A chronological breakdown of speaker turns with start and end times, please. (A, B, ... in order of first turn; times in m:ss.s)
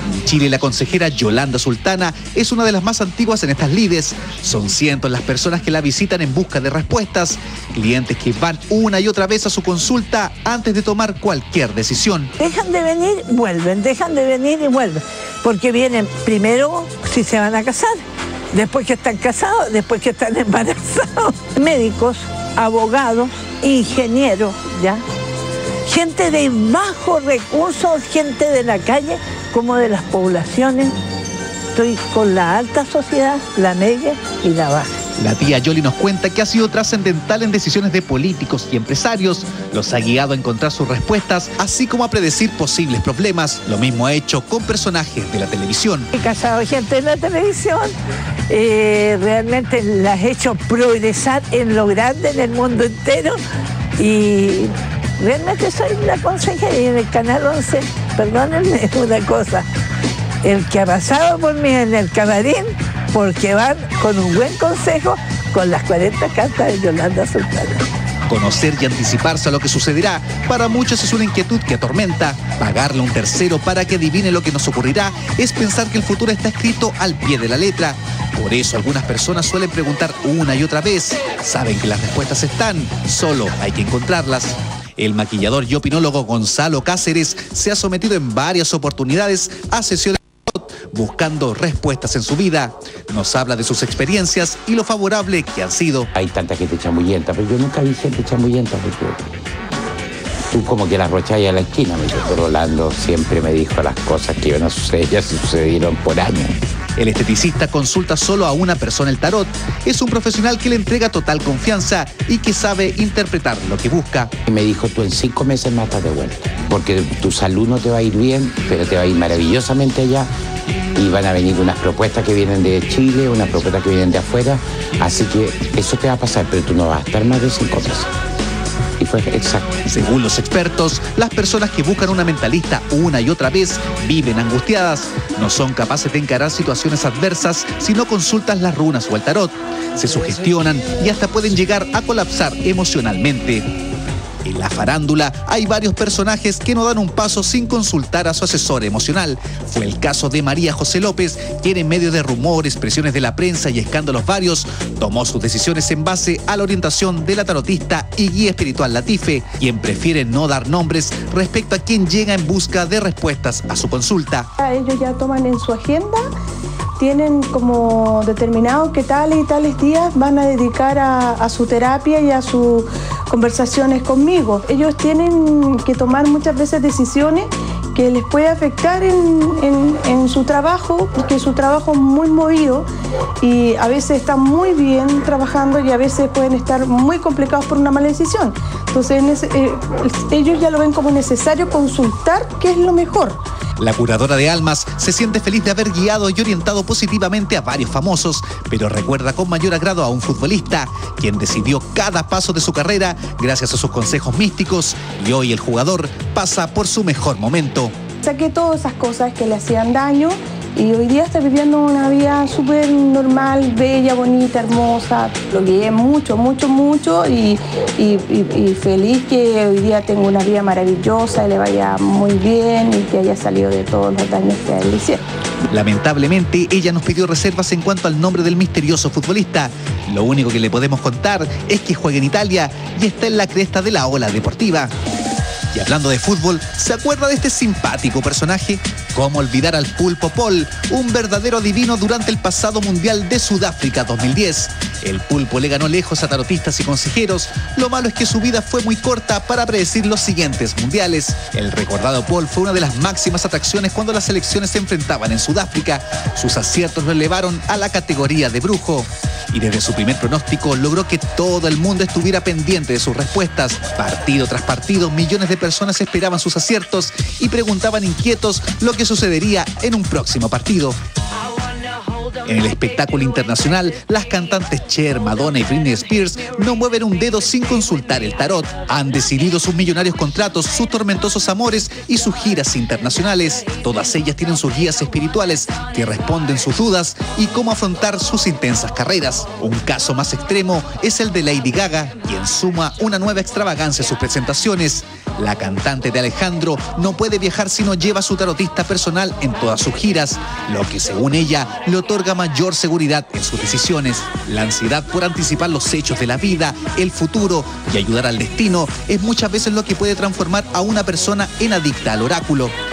0:00.2-0:12.3 A
0:12.4-0:18.0 B
0:18.5-0:25.0 B
0:25.9-0:30.9 B
0:31.8-0:34.9 B
0:35.2-0:46.1 A
0:46.1-0:47.9 B
0:48.5-0:53.4 B
0:54.0-0:59.7 B
1:00.4-1:07.8 B
1:08.3-1:36.1 A
1:36.2-1:39.3 C
1:40.5-1:46.6 C
1:47.0-1:54.3 A
1:54.5-2:00.3 C
2:01.0-2:08.1 C
2:09.0-2:09.7 C
2:09.9-2:23.7 A
2:24.4-2:44.5 A
2:44.6-2:46.2 D
2:47.0-3:02.9 D
3:03.4-3:13.4 D
3:13.8-3:27.9 A
3:28.2-3:45.2 D
3:45.7-3:54.9 A
3:55.7-4:31.0 A
4:32.5-5:12.7 A